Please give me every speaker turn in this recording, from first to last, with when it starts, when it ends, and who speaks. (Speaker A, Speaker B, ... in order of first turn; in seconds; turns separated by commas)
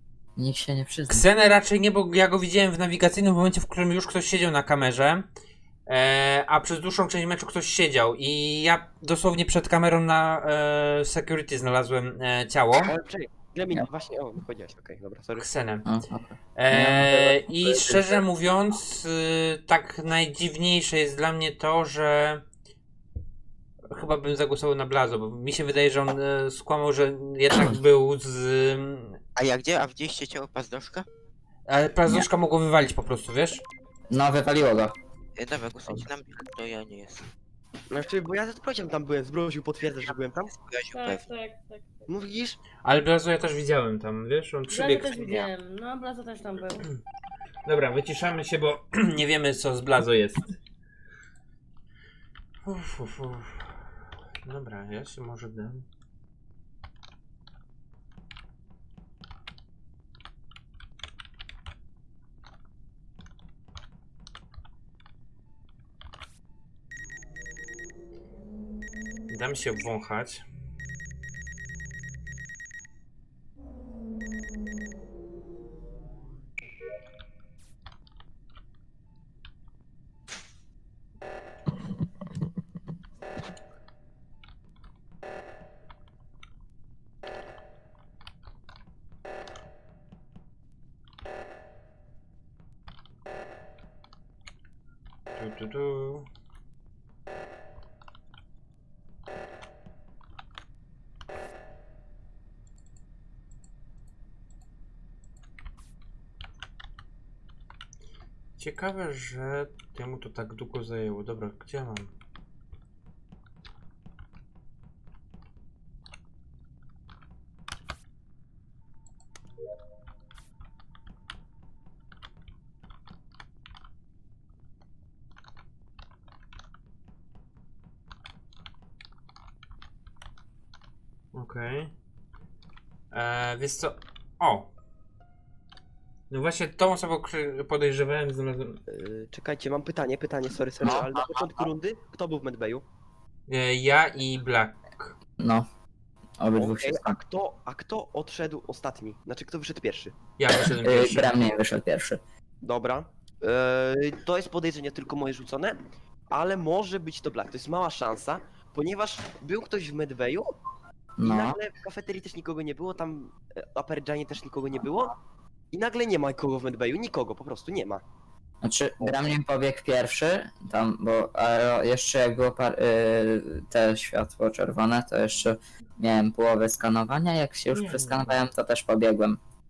Speaker A: 0.4-1.3, Speaker B: 1.1-5.2, Speaker B: 5.9-12.9, Speaker C: 12.8-15.5, Speaker B: 15.4-15.8, Speaker A: 15.8-18.2, Speaker B: 16.6-22.4, Speaker B: 23.9-29.2, Speaker D: 29.4-31.1, Speaker B: 31.7-33.6, Speaker A: 34.1-34.9, Speaker D: 35.4-37.3, Speaker C: 37.9-40.5, Speaker D: 40.5-41.2, Speaker E: 40.9-42.0, Speaker C: 42.1-42.6, Speaker B: 42.8-45.5, Speaker E: 44.7-46.9, Speaker B: 47.6-50.5, Speaker B: 52.6-53.8, Speaker B: 54.4-55.8, Speaker B: 69.3-70.4, Speaker B: 95.3-96.2, Speaker B: 108.6-112.1, Speaker B: 131.3-131.9, Speaker B: 133.1-134.7, Speaker B: 136.3-138.8, Speaker C: 138.9-142.8, Speaker A: 140.8-141.4, Speaker B: 143.5-145.1, Speaker A: 145.4-145.7, Speaker A: 146.4-147.2, Speaker C: 146.6-150.1, Speaker B: 150.4-151.3, Speaker A: 150.8-152.2, Speaker C: 152.6-155.8, Speaker C: 156.3-160.5, Speaker A: 161.2-161.6, Speaker C: 161.2-165.1, Speaker C: 165.7-168.0, Speaker A: 168.6-179.4, Speaker B: 177.7-178.3